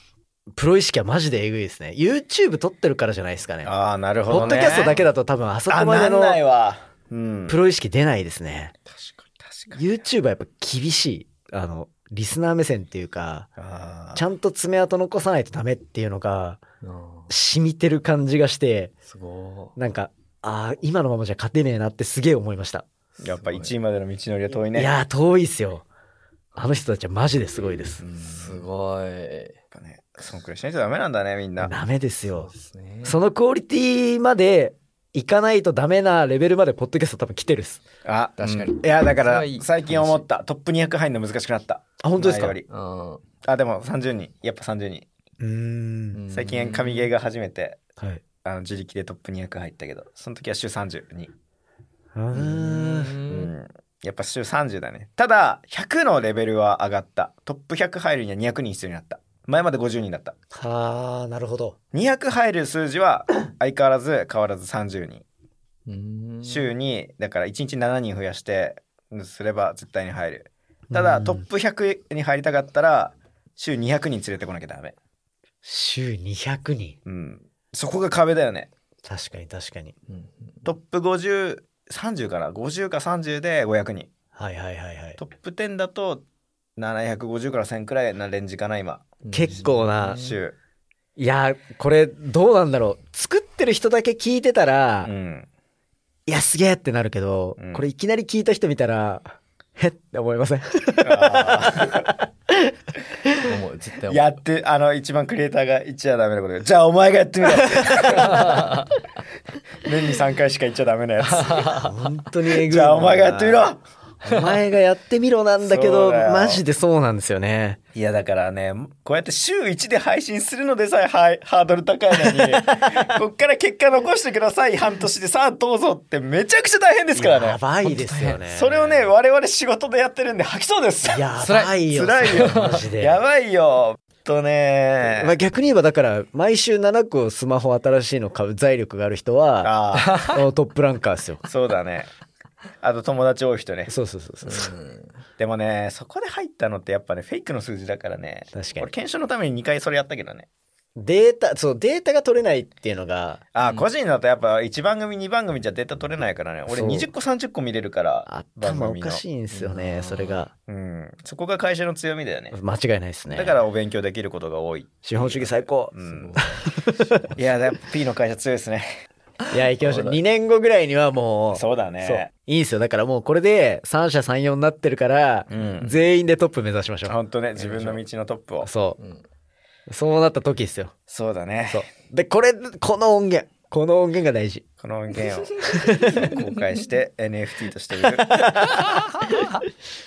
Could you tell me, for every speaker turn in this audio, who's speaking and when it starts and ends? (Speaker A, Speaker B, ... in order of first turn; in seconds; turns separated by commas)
Speaker A: 0.5-3.7, Speaker B: 3.6-5.0, Speaker A: 4.3-6.4, Speaker B: 5.7-7.6, Speaker A: 7.5-8.7, Speaker B: 8.9-9.8, Speaker A: 9.7-13.5, Speaker B: 13.6-14.2, Speaker A: 14.2-16.6, Speaker C: 16.8-17.3, Speaker A: 17.3-18.9, Speaker C: 19.1-19.8, Speaker A: 19.8-22.9, Speaker C: 23.2-23.7, Speaker B: 23.2-24.9, Speaker A: 24.7-25.9, Speaker A: 26.6-28.0, Speaker B: 28.0-28.6, Speaker C: 28.1-29.6, Speaker B: 29.7-31.7, Speaker A: 31.6-32.5, Speaker C: 32.3-33.1, Speaker A: 33.0-37.8, Speaker B: 38.0-42.7, Speaker C: 38.4-40.2, Speaker A: 42.0-42.6, Speaker C: 42.7-43.2, Speaker B: 43.4-45.1, Speaker A: 45.4-46.2, Speaker C: 46.1-47.1, Speaker B: 46.3-47.8, Speaker B: 48.4-51.3, Speaker A: 52.1-53.2, Speaker C: 52.4-53.5, Speaker B: 53.3-60.4, Speaker A: 60.5-61.8, Speaker B: 61.9-65.2, Speaker C: 65.9-66.7, Speaker B: 66.5-75.0, Speaker A: 70.9-71.4, Speaker A: 75.6-77.0, Speaker B: 77.1-78.7, Speaker A: 79.0-79.9, Speaker C: 80.1-80.7, Speaker B: 80.7-84.1, Speaker A: 84.4-85.2, Speaker B: 85.2-86.2, Speaker B: 86.8-89.2, Speaker C: 89.2-90.4, Speaker A: 89.3-90.2, Speaker B: 90.1-90.6, Speaker A: 91.2-95.1, Speaker B: 95.0-95.5, Speaker A: 96.3-102.7, Speaker B: 97.6-97.8, Speaker B: 101.0-102.1, Speaker C: 103.4-104.4, Speaker B: 104.1-108.7, Speaker A: 107.6-108.3, Speaker C: 108.3-108.9, Speaker B: 109.8-111.7, Speaker C: 111.3-111.9, Speaker A: 111.7-113.7, Speaker B: 112.5-113.8, Speaker A: 114.2-117.8, Speaker B: 115.6-116.6, Speaker B: 118.0-127.6, Speaker A: 122.2-123.2, Speaker A: 127.1-128.8, Speaker C: 127.8-128.8, Speaker B: 128.5-131.2, Speaker A: 131.1-133.2, Speaker C: 131.4-131.8, Speaker B: 131.9-135.3, Speaker C: 132.3-132.8, Speaker A: 135.2-139.7, Speaker B: 139.6-140.2, Speaker C: 139.9-140.3, Speaker A: 140.3-141.4, Speaker B: 141.4-142.1, Speaker B: 142.8-143.9, Speaker A: 143.9-144.7, Speaker C: 144.5-145.2, Speaker B: 145.4-150.5, Speaker A: 148.5-148.9, Speaker A: 151.0-153.4, Speaker B: 153.6-159.2, Speaker A: 156.7-157.1, Speaker A: 158.3-160.5, Speaker C: 159.7-160.3, Speaker B: 160.7-162.6, Speaker A: 162.5-163.6, Speaker B: 163.3-166.4, Speaker A: 165.1-167.2, Speaker C: 166.0-167.4, Speaker B: 167.3-168.9, Speaker A: 169.5-177.2, Speaker B: 169.8-170.2, Speaker B: 171.5-172.3, Speaker B: 175.5-176.0, Speaker B: 177.1-178.7, Speaker C: 177.6-178.0, Speaker A: 178.6-179.0, Speaker A: 179.9-180.9, Speaker B: 181.1-181.8, Speaker A: 181.7-184.6, Speaker B: 184.8-188.6, Speaker A: 185.7-186.3, Speaker A: 188.2-188.9